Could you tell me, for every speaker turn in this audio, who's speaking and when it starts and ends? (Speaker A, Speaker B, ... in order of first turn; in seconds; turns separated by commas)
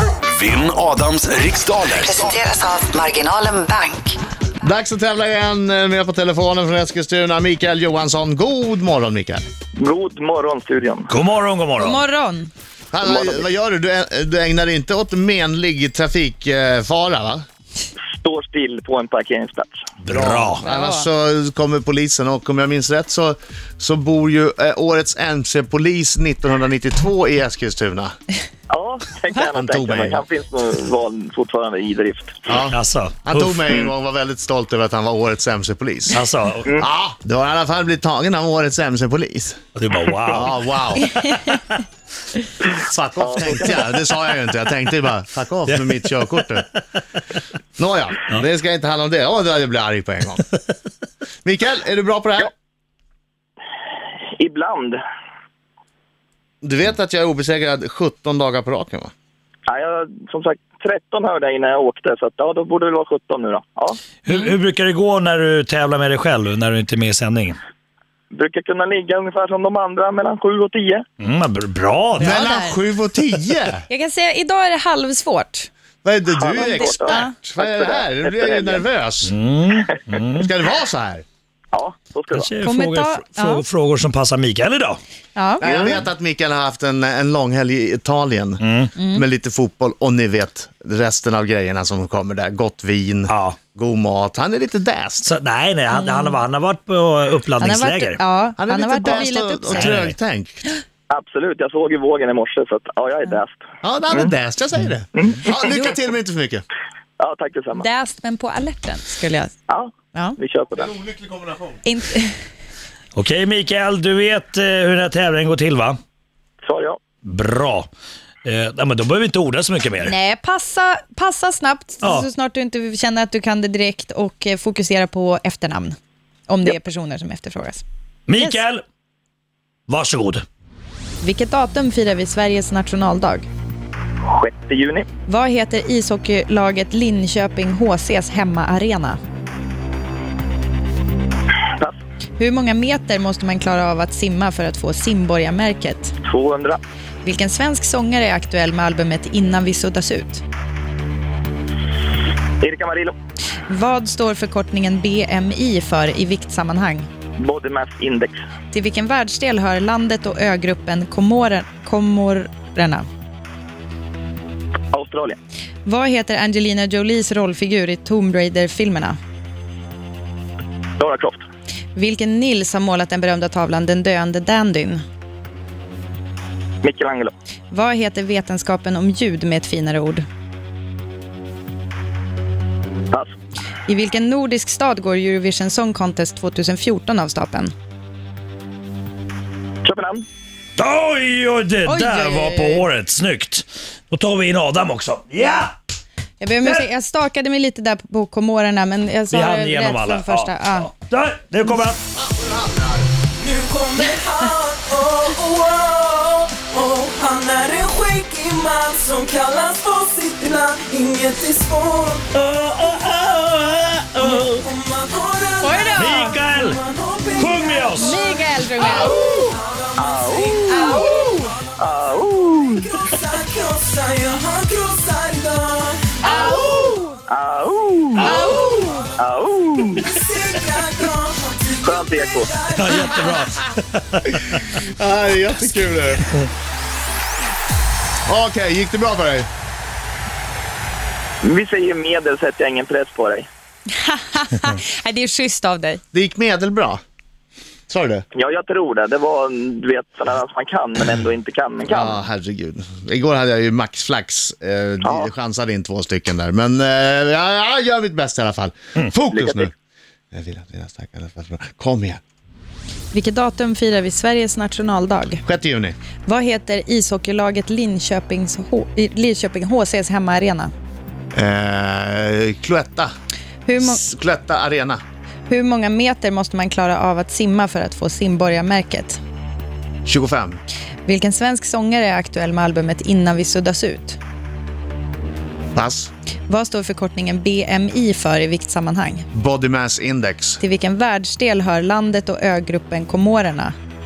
Speaker A: 0.3-2.4, Speaker B: 2.0-4.2, Speaker C: 4.6-9.4, Speaker D: 9.8-11.1, Speaker E: 11.1-12.0, Speaker F: 11.8-12.5, Speaker C: 12.9-17.4, Speaker D: 13.0-13.5, Speaker D: 18.1-19.8, Speaker E: 20.0-20.6, Speaker C: 20.1-28.1, Speaker F: 20.6-21.1, Speaker D: 28.7-32.4, Speaker C: 29.5-30.2, Speaker C: 32.5-36.2, Speaker E: 32.7-33.6, Speaker E: 36.1-36.7, Speaker C: 36.8-39.6, Speaker E: 39.8-40.6, Speaker C: 40.3-41.2, Speaker C: 42.7-46.7, Speaker D: 43.2-43.8, Speaker E: 45.7-46.6, Speaker C: 47.8-50.5, Speaker C: 51.4-52.5, Speaker D: 54.4-55.0, Speaker C: 56.6-59.1, Speaker D: 59.7-64.0, Speaker E: 64.2-67.6, Speaker D: 68.3-71.0, Speaker E: 71.2-72.4, Speaker C: 72.2-73.8, Speaker F: 72.2-72.8, Speaker F: 73.9-75.7, Speaker C: 76.0-79.3, Speaker D: 76.3-78.8, Speaker F: 76.5-77.3, Speaker E: 79.2-80.5, Speaker C: 80.4-81.2, Speaker D: 81.7-82.5, Speaker E: 82.3-85.0, Speaker F: 82.6-83.6, Speaker F: 85.3-85.7, Speaker C: 85.6-95.3, Speaker D: 85.6-86.0, Speaker E: 88.6-88.9, Speaker F: 89.0-89.2, Speaker E: 93.3-93.6, Speaker E: 95.2-98.2, Speaker F: 95.9-96.4, Speaker F: 97.6-100.0, Speaker C: 98.6-100.6, Speaker E: 99.7-100.2, Speaker D: 101.1-103.6, Speaker C: 103.8-106.7, Speaker D: 105.2-105.5, Speaker F: 105.6-105.9, Speaker D: 107.2-107.9, Speaker F: 107.8-109.5, Speaker D: 109.7-110.9, Speaker C: 110.8-111.8, Speaker F: 111.8-112.3, Speaker E: 113.2-116.0, Speaker D: 116.6-117.0, Speaker E: 117.2-117.9, Speaker E: 118.5-120.1, Speaker F: 120.0-126.0, Speaker E: 122.0-122.3, Speaker F: 126.5-127.8, Speaker E: 128.3-128.8, Speaker F: 128.3-128.6, Speaker E: 129.9-130.4, Speaker F: 131.2-133.5, Speaker D: 134.2-135.1, Speaker F: 135.3-139.2, Speaker F: 142.4-146.1, Speaker D: 146.2-146.8, Speaker F: 147.2-150.4, Speaker D: 152.6-153.1, Speaker F: 153.7-157.1, Speaker D: 157.4-158.4, Speaker F: 158.7-163.1, Speaker D: 164.9-165.4, Speaker F: 165.8-169.2, Speaker D: 171.0-171.4, Speaker F: 171.9-175.0, Speaker D: 176.8-177.3, Speaker F: 177.7-180.2, Speaker F: 183.9-187.7, Speaker D: 189.8-190.2, Speaker E: 190.8-195.8, Speaker F: 191.8-192.8, Speaker F: 196.4-200.9, Speaker E: 199.3-202.0, Speaker C: 202.1-203.1, Speaker G: 203.4-212.3, Speaker E: 212.3-214.7, Speaker G: 214.2-221.9, Speaker F: 215.6-216.4, Speaker E: 215.9-216.8, Speaker E: 217.4-218.2, Speaker F: 218.0-219.5, Speaker D: 220.0-221.1, Speaker F: 220.7-221.5, Speaker D: 221.8-222.9, Speaker G: 222.8-227.0, Speaker F: 226.2-227.1, Speaker D: 227.3-228.6, Speaker F: 228.2-229.0, Speaker G: 228.4-229.1, Speaker D: 229.2-230.1, Speaker G: 230.0-233.5, Speaker D: 231.8-232.6, Speaker E: 232.8-234.6, Speaker C: 234.4-236.3, Speaker C: 238.3-239.5, Speaker D: 241.4-243.5, Speaker F: 243.9-246.0, Speaker C: 246.1-247.0, Speaker C: 247.9-248.2, Speaker D: 248.3-252.2, Speaker C: 251.9-259.7, Speaker D: 255.0-255.3, Speaker D: 259.3-259.7, Speaker C: 260.3-262.2, Speaker F: 263.1-265.4, Speaker C: 265.4-266.0, Speaker F: 266.3-270.7, Speaker C: 271.3-273.1, Speaker F: 273.7-274.0, Speaker C: 273.8-275.0, Speaker F: 275.5-279.2, Speaker C: 280.1-280.6, Speaker F: 281.1-284.2, Speaker C: 285.8-286.1, Speaker F: 286.5-289.3, Speaker C: 289.3-290.6, Speaker F: 290.6-293.7